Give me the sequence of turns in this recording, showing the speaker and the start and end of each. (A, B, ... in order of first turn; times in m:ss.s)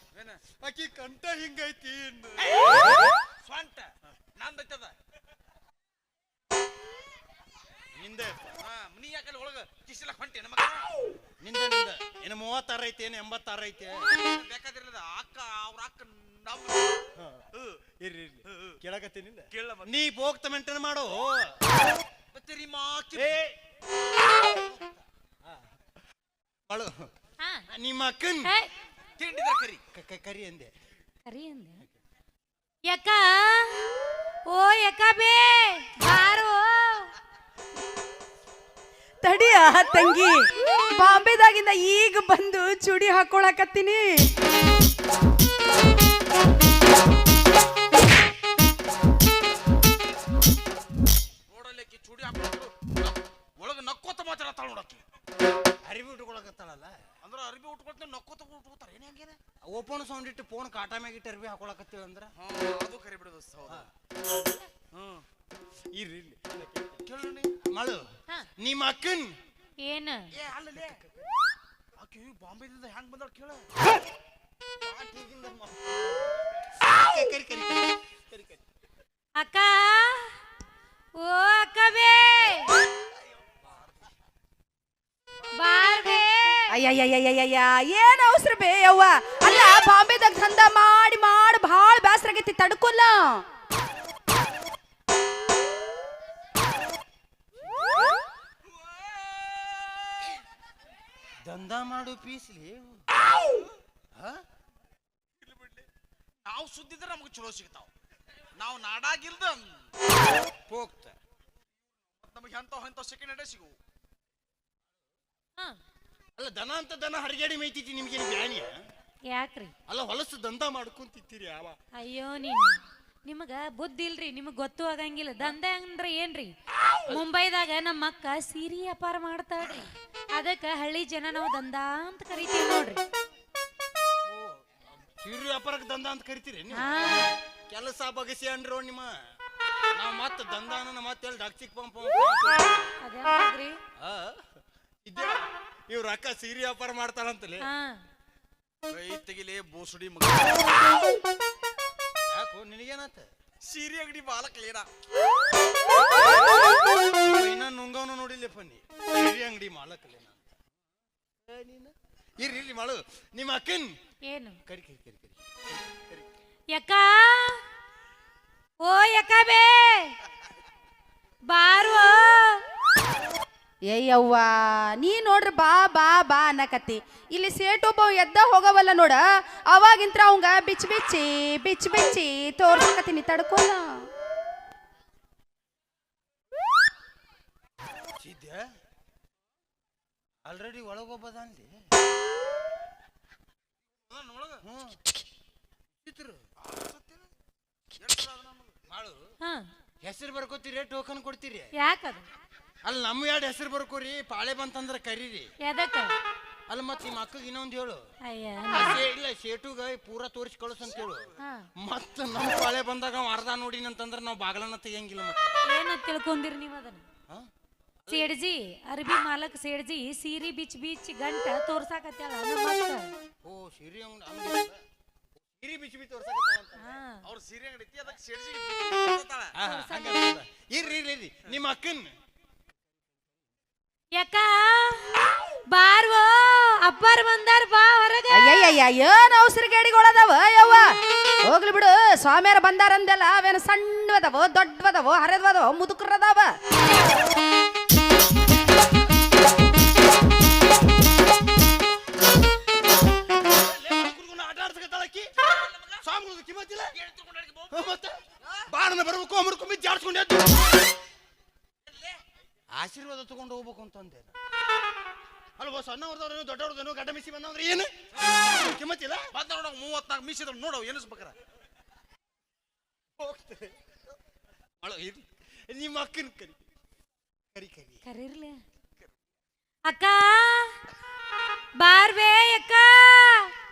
0:00.1-0:00.4 A
0:00.5-0:03.1 B
0:02.4-0:04.9 A
0:08.0-0:08.6 B
0:08.6-0:10.9 A
0:11.2-0:14.1 B
0:14.1-0:17.0 A
0:17.2-0:17.5 B
0:18.0-0:21.7 B
0:18.5-0:18.8 A
0:19.5-0:19.9 A
0:22.3-0:23.4 A
0:23.2-0:23.6 B
0:24.4-0:25.6 B
0:26.7-0:27.1 B
0:27.4-0:27.7 C
0:27.7-0:28.5 B
0:28.4-0:28.7 C
0:29.2-0:29.8 A
0:29.9-0:30.7 B
0:31.3-0:31.8 C
0:32.9-0:33.9 C
0:34.5-0:37.1 C
0:39.2-0:44.3 D
0:51.5-0:55.0 A
0:55.8-0:56.9 B
0:57.2-0:59.4 A
0:59.7-1:02.3 B
1:02.4-1:03.9 A
1:03.7-1:04.7 B
1:04.9-1:05.2 A
1:06.0-1:07.0 B
1:07.0-1:07.5 A
1:07.6-1:09.4 B
1:09.8-1:10.3 C
1:10.3-1:11.0 A
1:10.8-1:11.3 B
1:12.0-1:13.7 A
1:14.9-1:18.6 B
1:19.4-1:20.4 C
1:21.2-1:22.7 C
1:25.5-1:26.7 C
1:26.7-1:33.4 D
1:37.6-1:38.2 B
1:38.7-1:40.3 A
1:41.4-1:43.0 B
1:44.2-1:44.4 B
1:45.4-1:45.9 A
1:46.4-1:47.9 A
1:48.6-1:49.9 A
1:50.7-1:51.2 B
1:52.2-1:53.8 A
1:56.4-1:58.8 B
1:59.3-1:59.7 C
1:59.9-2:01.8 B
2:02.0-2:06.5 C
2:07.0-2:13.0 C
2:14.2-2:17.2 B
2:16.7-2:17.3 C
2:17.7-2:19.2 B
2:20.0-2:22.9 B
2:23.0-2:23.8 C
2:24.0-2:27.7 B
2:27.6-2:28.0 C
2:28.9-2:30.8 A
2:32.3-2:33.3 B
2:33.6-2:34.9 A
2:37.1-2:40.4 B
2:41.5-2:43.9 B
2:44.3-2:44.6 C
2:44.7-2:46.3 B
2:46.8-2:47.6 C
2:48.8-2:50.2 C
2:51.5-2:52.6 C
2:53.9-3:04.0 D
3:08.2-3:08.7 B
3:10.4-3:11.8 B
3:14.1-3:14.6 A
3:14.6-3:15.0 B
3:16.0-3:16.5 B
3:16.6-3:17.3 A
3:18.0-3:18.8 A
3:18.9-3:19.3 B
3:19.4-3:19.7 C
3:20.0-3:21.7 B
3:21.8-3:22.3 C
3:22.9-3:25.5 B
3:25.6-3:26.1 C
3:26.7-3:28.0 B
3:28.2-3:29.0 C
3:28.7-3:35.6 B
3:31.4-3:31.7 C
3:35.7-3:37.0 C
3:38.0-3:38.3 B
3:38.1-3:43.1 C
3:43.4-3:44.8 B
3:45.5-3:47.0 B
3:46.8-3:47.2 C
3:47.2-3:49.5 A
3:49.6-3:52.1 B
3:49.6-3:50.2 C
3:54.2-3:58.6 C
3:58.3-4:06.5 D
4:13.3-4:15.3 B
4:15.4-4:16.0 A
4:16.0-4:17.0 B
4:16.9-4:18.7 A
4:17.7-4:20.9 B
4:21.9-4:22.2 A
4:22.8-4:24.3 B
4:25.6-4:29.3 B
4:29.3-4:31.4 A
4:33.2-4:33.8 B
4:34.8-4:36.7 B
4:37.5-4:38.0 B
4:38.0-4:38.6 C
4:39.9-4:40.8 C
4:41.8-4:43.5 C